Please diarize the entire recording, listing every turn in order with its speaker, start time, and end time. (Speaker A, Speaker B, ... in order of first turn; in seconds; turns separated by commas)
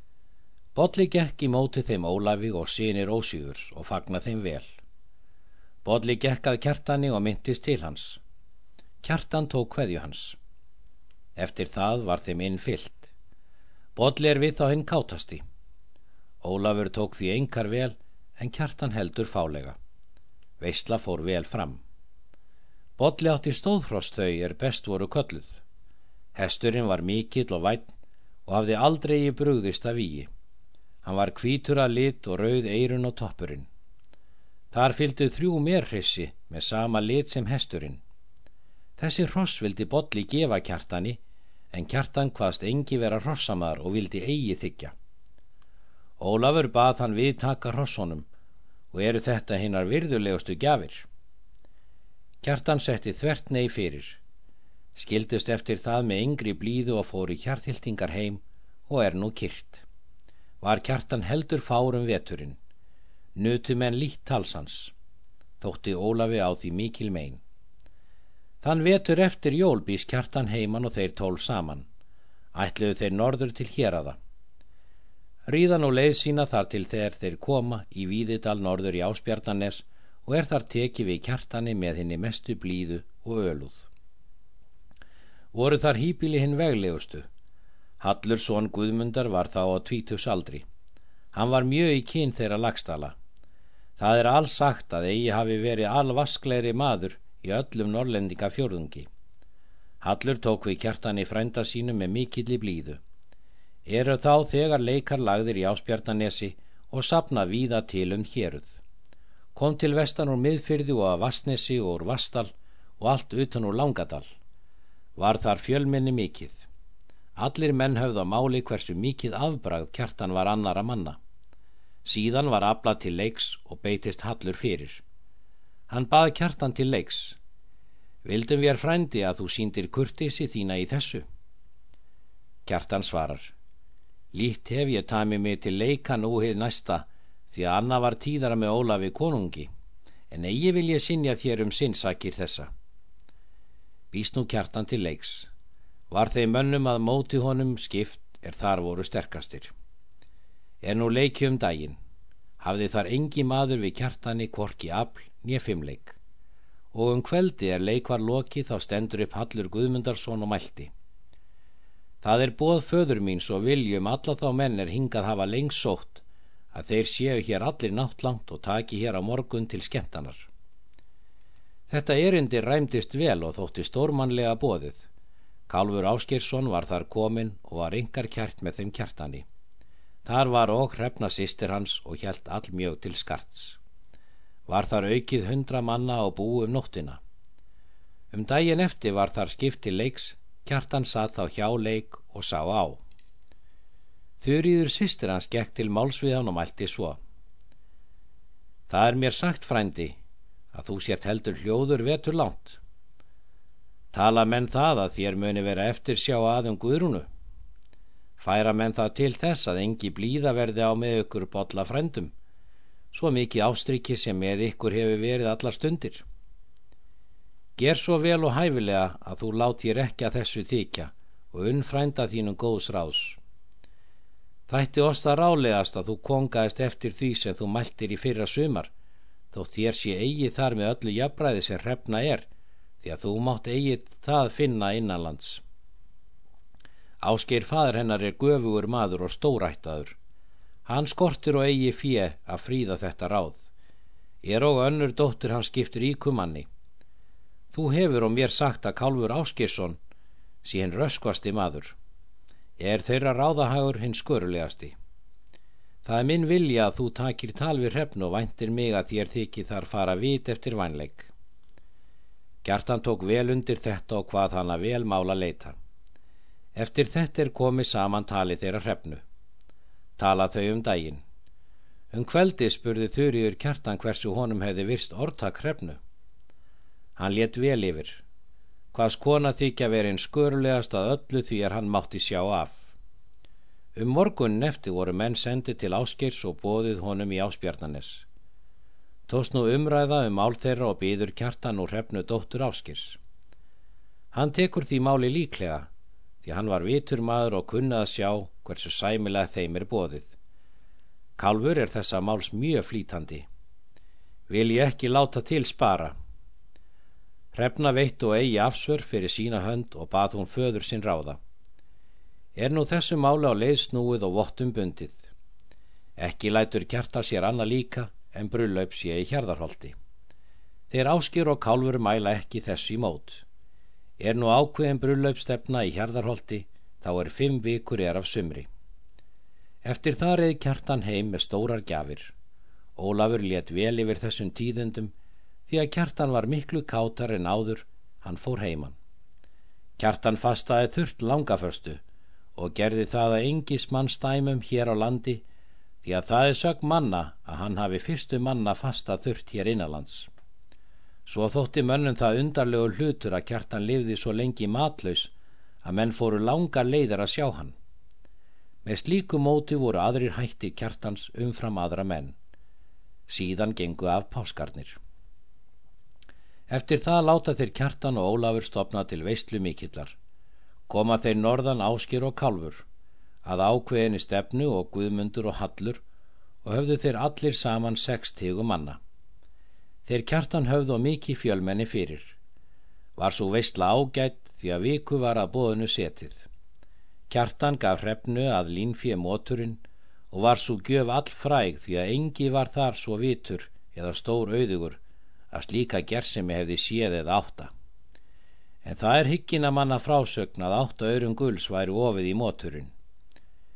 Speaker A: 0.8-4.7, Speaker A: 5.8-8.2, Speaker A: 9.0-10.4, Speaker A: 11.4-13.1, Speaker A: 14.0-15.4, Speaker A: 16.4-19.8, Speaker A: 20.6-21.8, Speaker A: 23.0-25.6, Speaker A: 26.4-27.9, Speaker A: 28.5-30.3, Speaker A: 31.0-33.7, Speaker A: 34.7-38.0, Speaker A: 39.0-41.2, Speaker A: 41.7-44.9, Speaker A: 46.2-48.3, Speaker A: 48.9-51.1, Speaker A: 52.4-54.2, Speaker A: 55.0-59.9, Speaker A: 60.6-62.6, Speaker A: 63.4-64.9, Speaker A: 65.6-67.4, Speaker A: 68.6-71.9, Speaker A: 72.5-74.2, Speaker A: 75.5-83.9, Speaker A: 85.5-87.3, Speaker A: 88.0-90.7, Speaker A: 91.3-93.2, Speaker A: 94.0-99.1, Speaker A: 100.0-103.0, Speaker A: 103.9-108.8, Speaker A: 109.6-114.3, Speaker A: 115.2-116.7, Speaker A: 117.4-121.2, Speaker A: 122.0-125.0, Speaker A: 125.9-127.4, Speaker A: 128.2-131.2, Speaker A: 132.7-133.5, Speaker A: 134.3-139.7, Speaker A: 140.3-142.7, Speaker A: 144.1-145.5, Speaker A: 146.1-149.7, Speaker A: 150.8-152.0, Speaker A: 152.6-156.2, Speaker A: 156.9-160.9, Speaker A: 162.2-170.5, Speaker A: 171.9-175.1, Speaker A: 175.7-179.5, Speaker A: 180.2-183.8, Speaker A: 184.7-187.2, Speaker A: 188.3-193.0, Speaker A: 194.4-197.2, Speaker A: 198.9-200.2, Speaker A: 200.7-202.8, Speaker A: 204.1-207.3, Speaker A: 208.4-212.3, Speaker A: 213.1-216.2, Speaker A: 217.8-223.4, Speaker A: 224.7-228.9, Speaker A: 229.5-232.5, Speaker A: 233.0-235.6, Speaker A: 237.2-240.2, Speaker A: 240.8-243.7, Speaker A: 244.4-246.7, Speaker A: 247.7-250.0, Speaker A: 250.6-251.9, Speaker A: 252.8-254.9, Speaker A: 256.0-261.3, Speaker A: 262.6-265.8, Speaker A: 266.8-269.2, Speaker A: 270.2-271.2, Speaker A: 272.1-276.0, Speaker A: 277.2-278.2, Speaker A: 278.9-282.9, Speaker A: 284.0-288.3, Speaker A: 289.3-293.2, Speaker A: 294.3-295.9, Speaker A: 296.4-300.3, Speaker A: 301.4-303.5, Speaker A: 304.5-306.1, Speaker A: 307.5-311.4, Speaker A: 312.6-315.3, Speaker A: 316.2-319.9, Speaker A: 320.9-323.4, Speaker A: 324.2-328.7, Speaker A: 329.8-332.3, Speaker A: 333.0-335.1, Speaker A: 335.7-339.0, Speaker A: 340.0-342.0, Speaker A: 342.6-345.4, Speaker A: 346.0-350.3, Speaker A: 351.3-355.3, Speaker A: 355.8-357.8, Speaker A: 358.9-362.4, Speaker A: 363.3-365.0, Speaker A: 366.7-370.2, Speaker A: 370.9-372.8, Speaker A: 373.4-376.0, Speaker A: 376.6-379.0, Speaker A: 380.1-382.4, Speaker A: 383.2-386.5, Speaker A: 387.3-395.0, Speaker A: 395.5-397.7, Speaker A: 398.8-402.9